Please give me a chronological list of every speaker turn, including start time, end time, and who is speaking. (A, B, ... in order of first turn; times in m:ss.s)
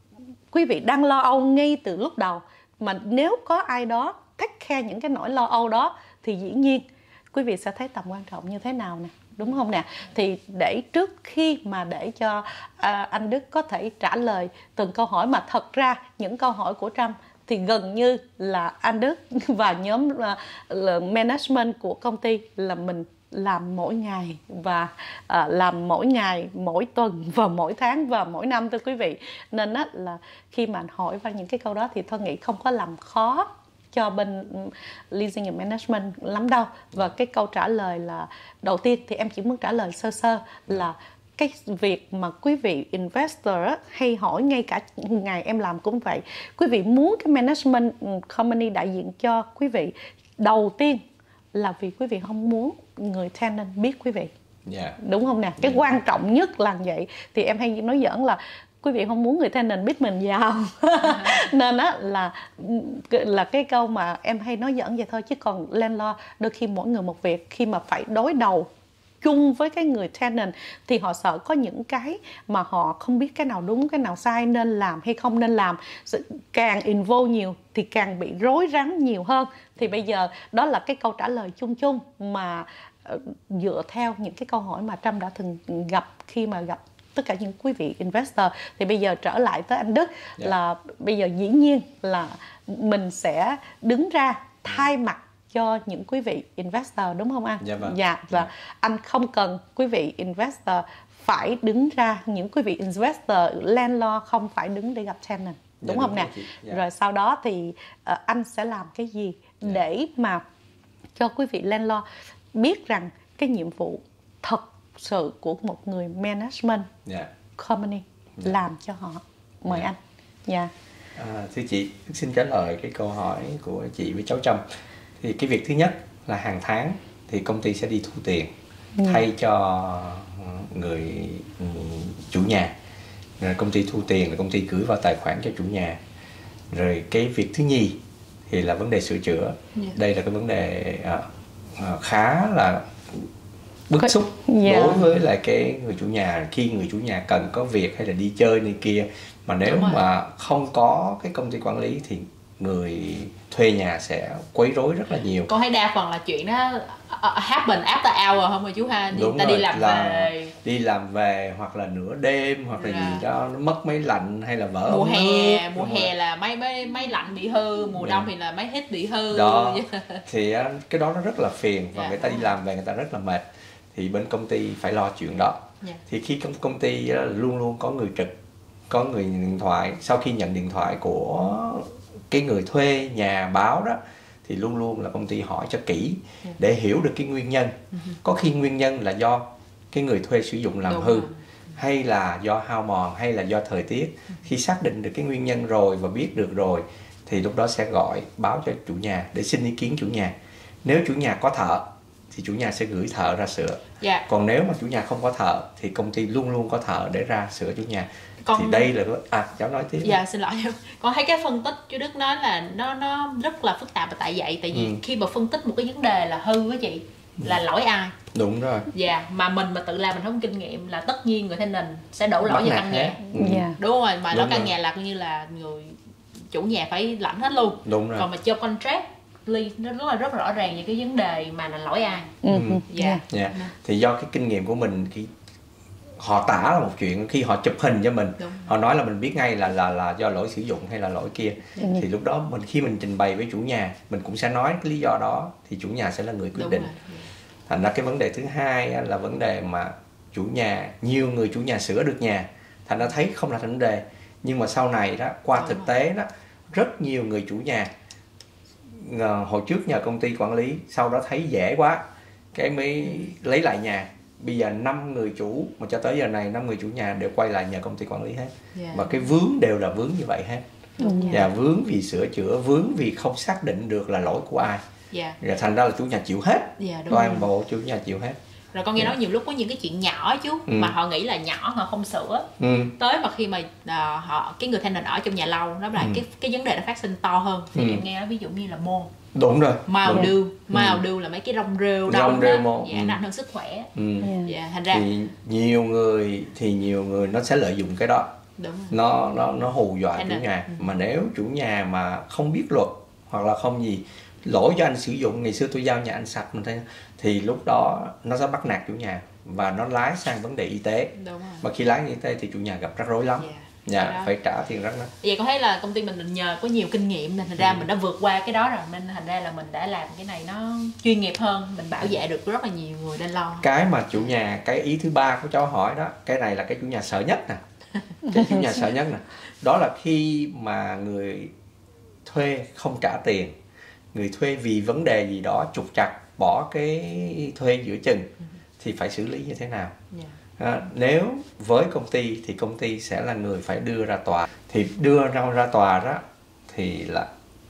0:00.5-0:51.0 A
0:51.5-0:54.3 A
0:54.6-0:55.0 B
0:55.0-1:08.7 A
0:55.6-0:55.9 B
1:09.2-1:50.4 A
1:37.6-1:38.4 B
1:45.8-1:46.8 B
1:51.2-1:56.9 A
1:57.6-2:00.7 A
2:01.2-2:04.6 B
2:05.2-2:08.5 B
2:09.0-2:09.2 A
2:09.0-2:12.7 B
2:13.4-2:16.0 B
2:16.7-2:21.2 B
2:21.8-2:23.3 B
2:23.9-2:35.5 B
2:24.0-2:25.0 A
2:29.6-2:30.0 C
2:35.4-2:40.5 C
2:39.1-2:46.1 B
2:42.8-2:43.2 C
2:44.9-2:50.2 C
2:48.0-2:48.3 B
2:49.3-2:58.3 B
2:51.9-2:52.5 C
2:58.9-3:30.2 B
3:10.9-3:11.3 C
3:24.0-3:24.2 C
3:28.4-3:28.9 C
3:30.0-3:38.2 C
3:34.7-3:35.0 B
3:38.3-3:38.9 B
3:38.9-3:46.0 C
3:42.4-3:43.7 B
3:43.3-3:43.8 A
3:44.3-3:44.7 B
3:46.5-3:53.7 C
3:47.8-3:48.3 B
3:52.4-3:53.2 A
3:52.5-3:55.3 B
3:56.2-4:06.9 B
3:58.4-3:58.7 C
4:01.8-4:02.0 A
4:06.5-4:07.3 C
4:07.7-4:17.9 B
4:15.5-4:15.9 C
4:18.9-4:30.6 B
4:28.7-4:29.2 C
4:31.0-4:31.5 C
4:31.0-4:31.4 A
4:31.3-4:34.8 B
4:35.1-4:35.4 C
4:35.4-4:38.4 B
4:36.8-4:37.5 C
4:38.7-4:49.1 C
4:40.7-4:40.9 B
4:42.6-4:42.9 B
4:46.0-4:46.2 B
4:47.7-4:48.0 B
4:49.3-4:51.0 B
4:49.9-4:53.9 C
4:52.0-4:53.2 B
4:53.9-4:54.3 B
4:54.2-4:54.5 A
4:54.4-4:55.0 C
4:54.9-4:58.3 B
4:58.6-4:59.0 C
4:58.9-5:15.1 B
5:00.1-5:00.8 C
5:11.1-5:11.7 C
5:13.4-5:14.3 C
5:15.2-5:23.7 C
5:17.6-5:17.9 B
5:23.6-5:27.6 B
5:28.2-5:31.5 B
5:32.2-5:33.5 B
5:34.1-5:40.0 B
5:40.1-5:40.4 C
5:40.6-5:47.3 B